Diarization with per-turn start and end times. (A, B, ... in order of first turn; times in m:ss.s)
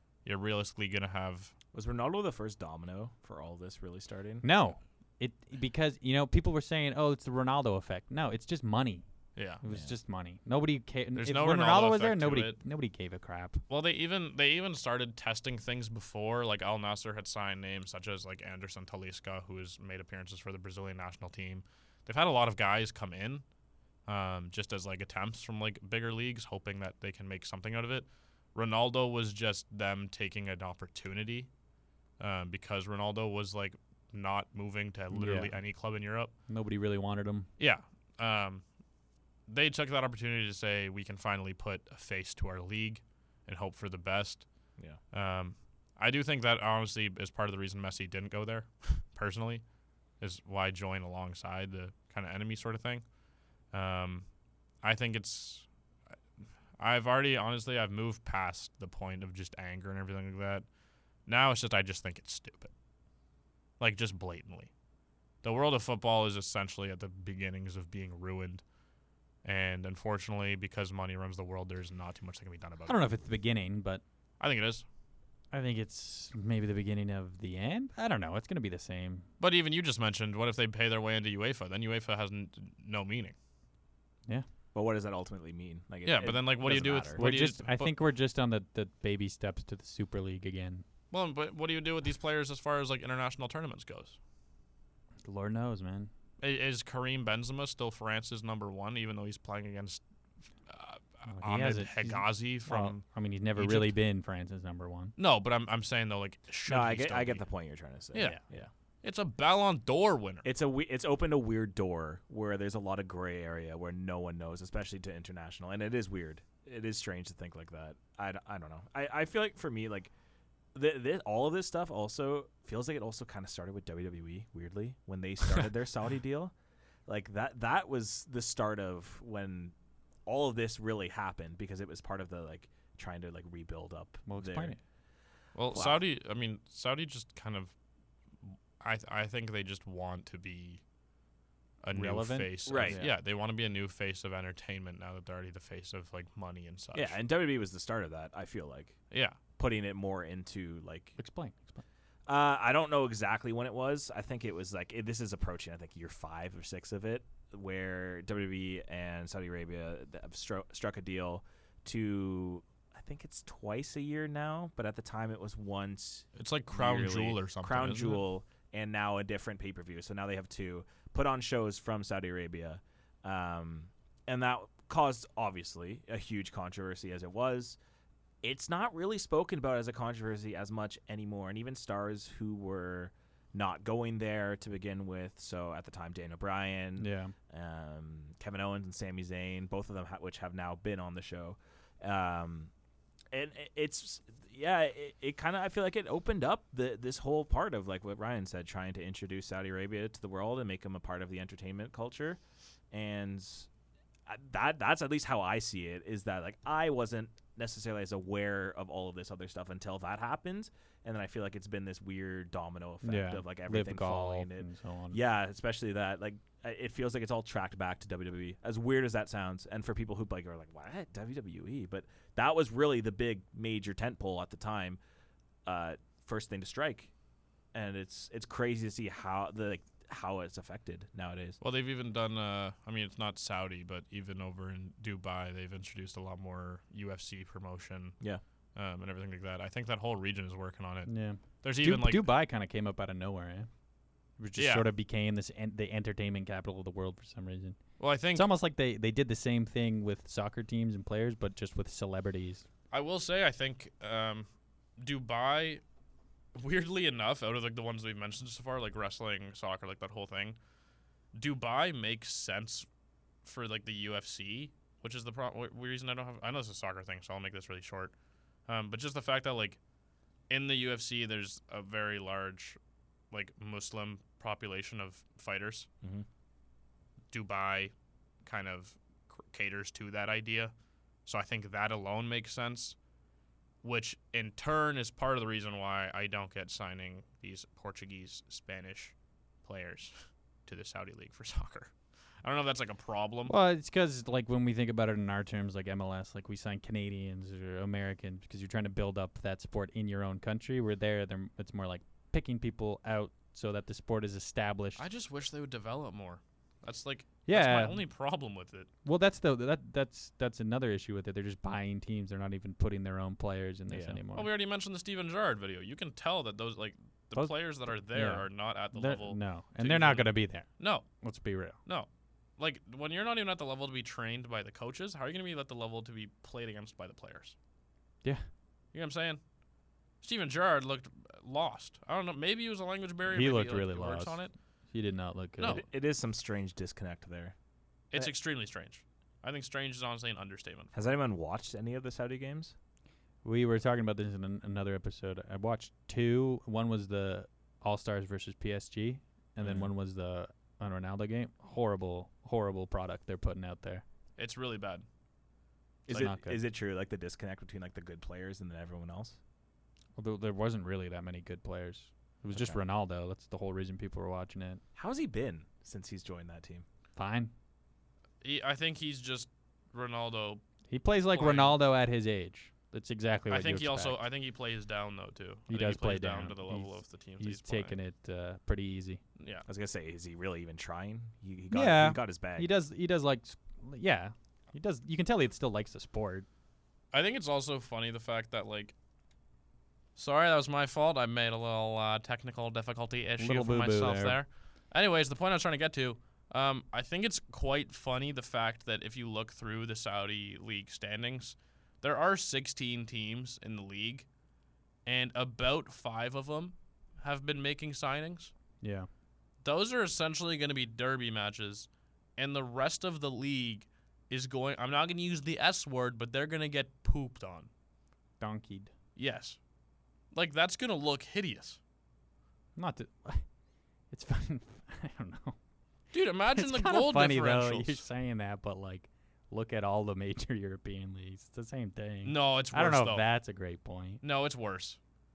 0:00.2-0:01.5 A
0:01.7-0:04.4 B
0:04.4-0:09.0 C
0:09.4-0:09.6 A
0:09.6-0:13.6 C
0:09.7-0:09.9 B
0:11.2-0:12.6 A
0:13.7-0:23.4 A
0:24.1-0:31.5 A
0:32.2-0:36.3 A
0:35.1-0:35.5 C
0:36.5-0:37.5 C
0:37.6-0:38.6 A
0:39.5-0:44.5 A
0:45.1-0:49.6 A
0:50.2-0:53.0 A
0:53.7-0:54.2 A
0:54.8-0:55.7 A
0:56.8-1:00.6 A
1:01.2-1:02.7 A
1:03.8-1:04.7 A
1:05.4-1:08.6 A
1:09.4-1:13.0 A
1:12.8-1:14.0 C
1:14.4-1:14.8 A
1:15.5-1:19.2 C
1:19.4-1:23.3 A
1:24.7-1:27.2 B
1:26.0-1:27.9 A
1:27.1-1:30.8 C
1:31.1-1:34.2 A
1:35.2-1:36.1 C
1:36.4-1:40.0 A
1:40.7-1:43.0 A
1:41.3-1:45.1 C
1:43.6-1:43.9 A
1:45.2-1:47.5 A
1:46.6-1:48.7 B
1:48.1-1:48.4 A
1:48.2-1:48.4 C
1:49.0-1:50.5 A
1:50.4-2:00.1 B
2:00.7-2:06.5 B
2:07.1-2:09.7 B
2:10.2-2:14.8 B
2:14.2-2:14.8 C
2:15.5-2:17.7 A
2:15.7-2:16.0 B
2:18.8-2:20.8 A
2:21.8-2:27.2 A
2:21.9-2:23.1 C
2:22.6-2:23.0 B
2:26.9-2:29.0 B
2:29.1-2:29.4 A
2:29.6-2:31.2 B
2:31.2-2:31.8 C
2:32.3-2:57.8 B
2:46.4-2:48.2 A
2:58.4-3:12.7 B
3:07.0-3:07.3 C
3:13.3-3:22.4 B
3:22.9-3:23.7 B
3:24.2-3:45.0 B
3:33.0-3:35.2 C
3:45.6-3:47.1 B
3:47.7-3:51.6 B
3:51.6-3:58.2 A
3:58.7-4:01.1 A
4:01.0-4:03.7 C
4:01.6-4:02.3 A
4:04.4-4:07.8 C
4:04.6-4:04.9 A
4:08.0-4:08.5 A
4:08.3-4:12.6 C
4:12.9-4:14.5 A
4:15.0-4:15.8 A
4:16.5-4:20.6 A
4:21.3-4:22.9 A
4:23.4-4:28.1 A
4:28.7-4:29.8 A
4:30.5-4:32.8 A
4:33.3-4:35.9 A
4:37.3-4:37.9 A
4:38.4-4:40.7 A
4:41.2-4:43.0 A
4:43.8-4:50.1 A
4:50.7-4:51.9 A
4:52.4-4:53.5 A
4:53.4-5:05.0 C
5:05.0-5:08.9 A
5:07.4-5:08.0 C
5:09.0-5:14.5 C
5:13.9-5:14.2 B
5:14.3-5:21.1 A
5:17.3-5:21.8 C
5:21.8-5:27.5 A
5:28.9-5:29.4 A
5:30.2-5:34.5 A
5:33.3-5:34.4 C
5:34.9-5:35.8 C
5:35.6-5:35.8 A
5:35.6-5:37.5 B
5:38.1-5:40.9 A
5:40.9-5:42.7 B
5:43.4-5:54.0 C
5:54.4-5:55.0 A
5:56.1-5:59.4 B
5:56.1-5:56.6 C
6:00.2-6:04.8 C
6:02.5-6:02.8 B
6:04.9-6:06.8 B
6:07.2-6:07.5 C
6:08.4-6:10.6 A
6:10.9-6:14.2 C
6:11.3-6:11.8 A
6:13.5-6:17.9 A
6:15.7-6:19.2 C
6:19.4-6:19.6 A
6:19.7-6:22.7 B
6:21.7-6:26.4 C
6:27.1-6:28.9 A
6:30.2-6:44.2 A
6:33.4-6:34.4 C
6:45.0-6:48.5 A
6:48.8-6:49.1 C
6:49.6-6:57.7 A
6:58.4-6:58.9 C
6:59.2-6:59.6 A
7:00.3-7:01.8 A
7:02.8-7:03.4 C
7:04.1-7:05.6 C
7:06.1-7:08.0 A
7:06.5-7:14.2 C
7:12.2-7:13.2 A
7:14.2-7:15.0 A